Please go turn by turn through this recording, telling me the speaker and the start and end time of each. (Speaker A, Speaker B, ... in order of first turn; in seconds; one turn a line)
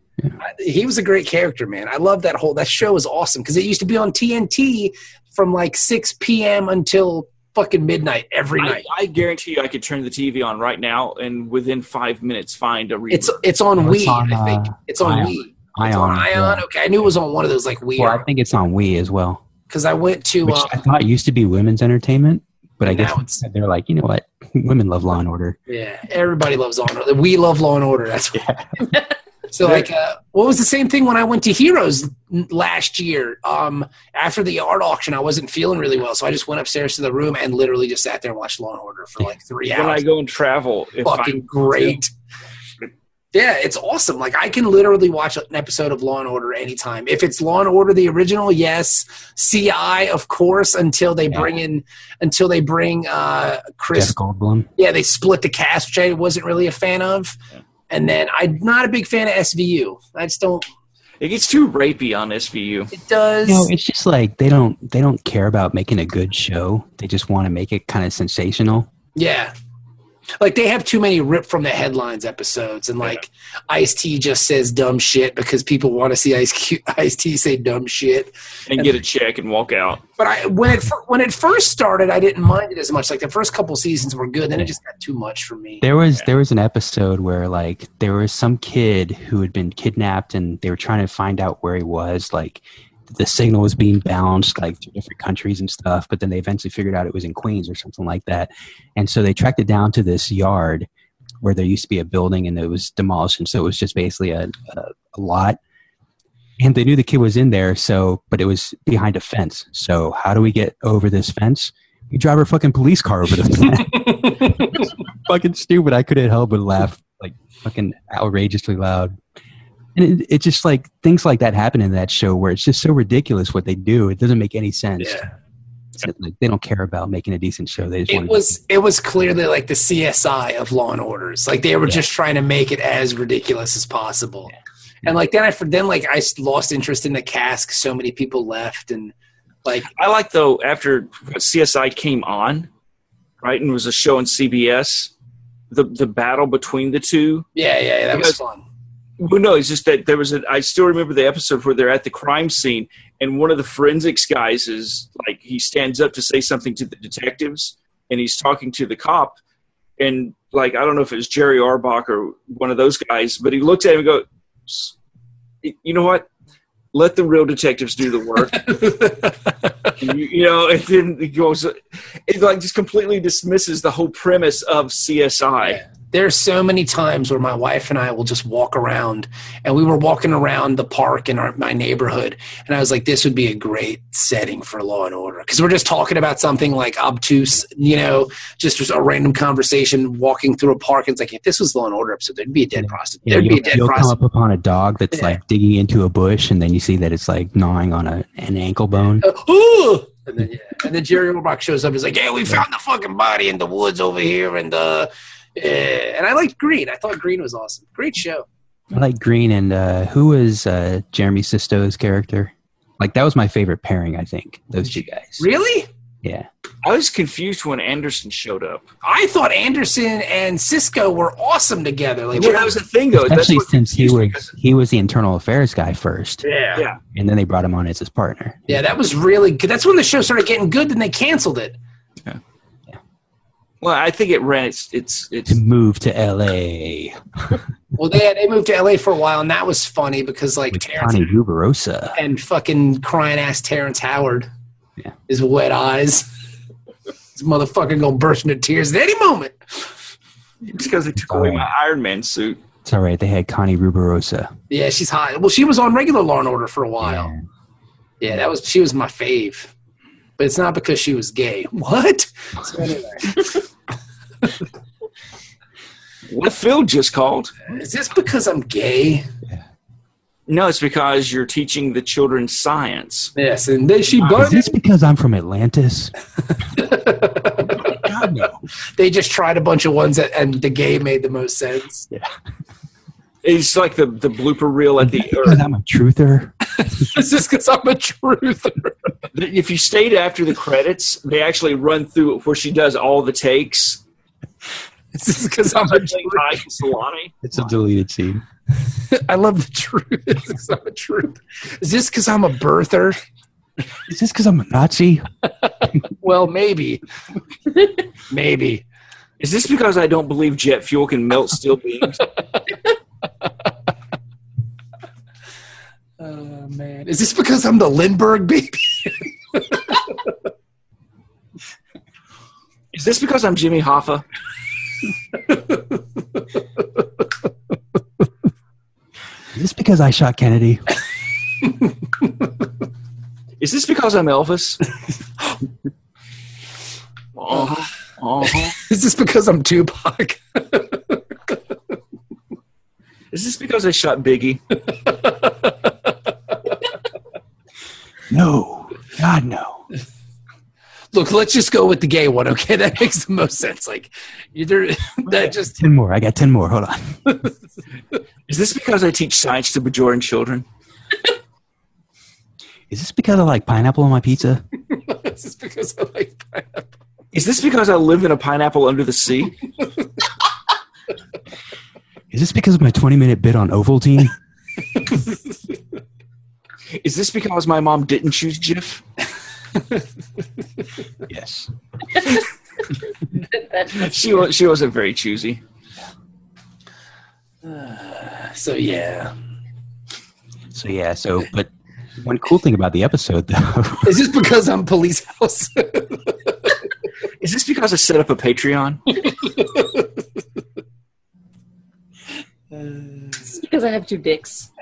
Speaker A: 0.4-8.8
Speaker B: 8.6-13.4
Speaker A: 13.1-18.2
Speaker C: 13.8-16.6
Speaker C: 18.0-19.4
Speaker A: 19.7-20.8
Speaker C: 20.4-25.6
Speaker A: 22.8-23.4
Speaker A: 25.7-40.0
Speaker C: 28.3-28.8
Speaker B: 39.7-42.0
Speaker A: 41.0-42.1
Speaker A: 43.3-54.1
Speaker C: 53.9-54.7
Speaker A: 54.8-57.4
Speaker A: 57.9-60.6
Speaker B: 61.2-62.9
Speaker A: 62.9-63.7
Speaker C: 63.5-68.9
Speaker A: 69.2-69.5
Speaker A: 70.4-78.8
Speaker B: 78.7-80.0
Speaker A: 80.2-85.8
Speaker C: 85.8-100.9
Speaker C: 101.4-105.6
Speaker C: 106.6-119.2
Speaker A: 114.1-114.8
Speaker C: 119.9-125.2
Speaker A: 125.0-125.3
Speaker C: 126.0-128.5
Speaker A: 128.1-134.5
Speaker A: 135.0-139.1
Speaker B: 139.8-142.7
Speaker B: 143.4-145.1
Speaker B: 145.7-147.5
Speaker A: 147.5-148.6
Speaker B: 149.2-159.4
Speaker B: 160.0-164.9
Speaker B: 165.6-166.2
Speaker B: 166.9-168.7
Speaker A: 168.5-169.9
Speaker B: 170.0-175.8
Speaker A: 175.7-194.2
Speaker C: 192.8-199.2
Speaker A: 195.1-195.4
Speaker A: 199.2-208.4
Speaker C: 208.9-215.4
Speaker A: 215.4-215.9
Speaker B: 216.8-218.8
Speaker A: 219.0-222.8
Speaker B: 222.3-224.5
Speaker C: 223.1-226.4
Speaker A: 226.4-226.8
Speaker C: 227.1-228.7
Speaker A: 228.7-231.8
Speaker B: 233.8-235.6
Speaker C: 235.5-237.6
Speaker A: 237.9-241.3
Speaker C: 240.7-242.2
Speaker A: 242.1-244.5
Speaker A: 245.3-246.3
Speaker A: 247.3-249.9
Speaker B: 250.6-252.6
Speaker C: 251.3-251.7
Speaker C: 252.8-254.5
Speaker A: 254.7-257.3
Speaker C: 257.0-257.4
Speaker A: 258.2-259.7
Speaker A: 260.4-263.6
Speaker B: 266.3-267.5
Speaker A: 267.7-269.2
Speaker B: 270.5-273.3
Speaker A: 273.4-274.7
Speaker C: 274.3-276.1
Speaker A: 276.6-278.0
Speaker C: 277.8-278.6
Speaker A: 278.9-282.1
Speaker B: 283.4-285.6
Speaker C: 285.0-287.0
Speaker A: 286.8-289.0
Speaker B: 289.3-294.0
Speaker A: 295.1-296.6
Speaker B: 295.8-297.3
Speaker C: 297.4-298.4
Speaker A: 299.0-303.2
Speaker C: 304.1-305.3
Speaker A: 306.1-307.0
Speaker A: 308.3-308.8
Speaker B: 309.4-312.2
Speaker A: 316.2-320.0
Speaker B: 322.9-324.2
Speaker C: 329.5-330.9
Speaker B: 333.6-334.8
Speaker B: 337.3-338.8
Speaker A: 338.4-341.2
Speaker B: 343.3-344.6
Speaker A: 344.9-345.9
Speaker C: 348.3-349.9
Speaker A: 351.1-355.7
Speaker C: 355.3-357.3
Speaker B: 358.5-360.6
Speaker C: 362.9-364.6
Speaker A: 364.9-366.9
Speaker B: 367.3-369.6
Speaker C: 372.3-374.4
Speaker A: 375.0-375.3
Speaker B: 377.0-379.0
Speaker C: 381.3-381.7
Speaker D: 383.3-384.1
Speaker B: 383.9-385.6
Speaker A: 387.6-389.3
Speaker C: 390.7-391.7
Speaker C: 392.2-394.2
Speaker A: 394.0-396.2
Speaker B: 397.4-399.1
Speaker A: 402.7-403.4
Speaker D: 403.5-404.7